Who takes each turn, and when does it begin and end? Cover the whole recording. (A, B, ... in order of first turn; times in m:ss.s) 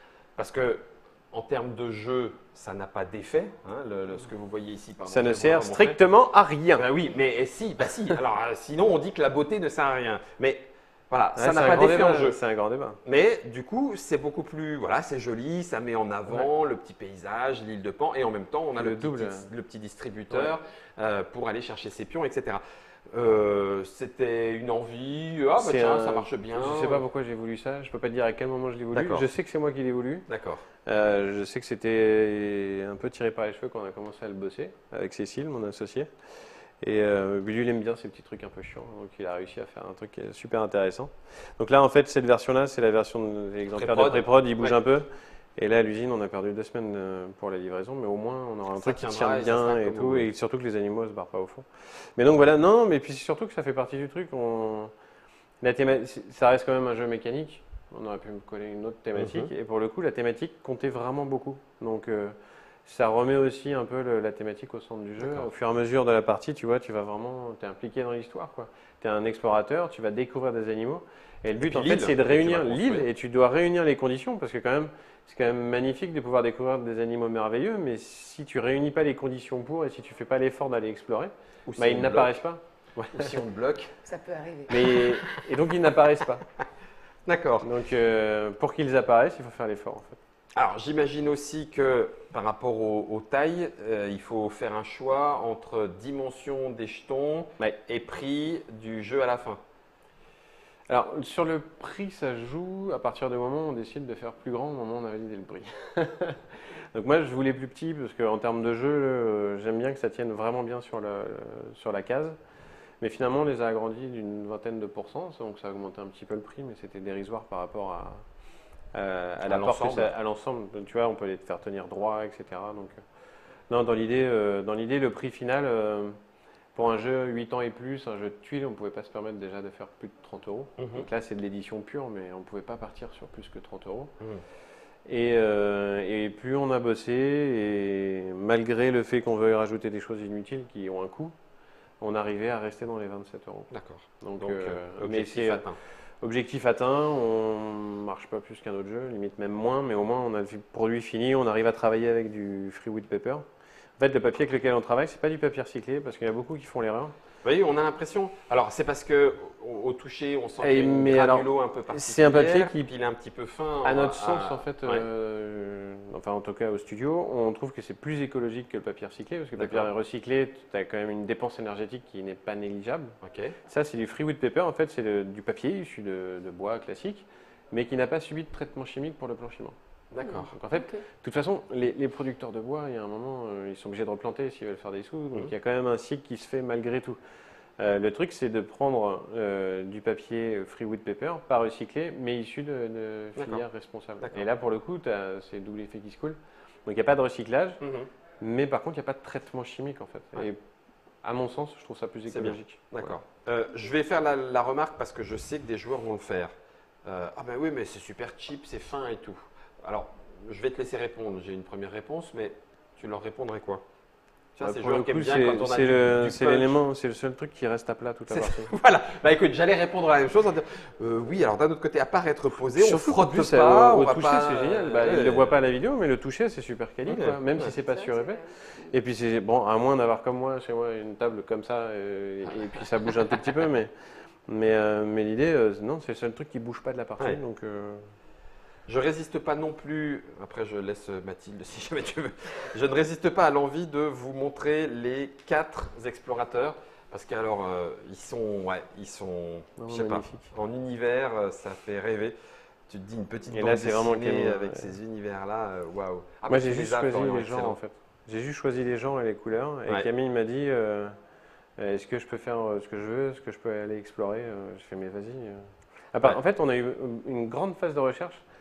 0:00.4-0:06.0 A
0:05.1-0:06.8 B
0:06.8-0:12.4 A
0:11.4-0:13.0 B
0:13.0-0:27.0 A
0:18.8-0:19.5 B
0:25.6-0:30.2 B
0:28.9-0:29.3 A
0:30.3-0:30.6 A
0:30.8-0:36.1 B
0:36.8-0:54.9 B
0:43.7-0:44.8 A
0:48.8-0:50.3 A
0:55.6-1:02.3 B
0:59.2-0:59.5 A
1:02.8-1:23.3 B
1:05.2-1:05.5 A
1:11.7-1:13.1 A
1:21.7-1:22.3 A
1:23.0-1:23.9 A
1:24.0-1:24.9 C
1:24.7-1:26.4 B
1:24.7-1:25.1 A
1:27.2-1:27.7 A
1:27.6-1:30.2 B
1:30.5-1:39.6 A
1:40.9-1:52.4 B
1:53.0-1:58.2 B
1:58.9-2:03.0 B
1:59.5-2:00.1 A
2:03.7-2:06.2 B
2:06.7-2:14.1 B
2:10.8-2:11.0 A
2:15.0-2:21.3 B
2:22.0-2:23.7 B
2:23.7-2:25.8 A
2:24.2-2:25.6 B
2:26.2-2:33.4 B
2:34.0-2:37.1 B
2:37.4-2:45.0 A
2:40.6-2:42.8 B
2:43.8-2:59.7 B
2:49.6-2:49.9 A
2:53.2-2:53.6 A
3:00.1-3:00.5 A
3:00.2-3:01.0 C
3:00.5-3:07.2 B
3:07.8-3:17.8 B
3:13.4-3:13.6 A
3:17.8-3:18.1 A
3:18.4-3:20.6 B
3:21.2-3:23.2 B
3:22.3-3:26.5 A
3:27.0-3:33.8 A
3:34.6-3:36.8 A
3:34.6-3:38.7 B
3:38.3-3:45.7 A
3:42.7-3:53.9 B
3:47.0-3:47.7 A
3:47.6-3:49.0 C
3:54.5-3:58.1 B
3:58.9-4:12.3 A
4:09.8-4:10.5 B
4:12.9-4:17.8 A
4:13.5-4:15.0 B
4:16.5-4:21.1 B
4:21.8-4:28.4 B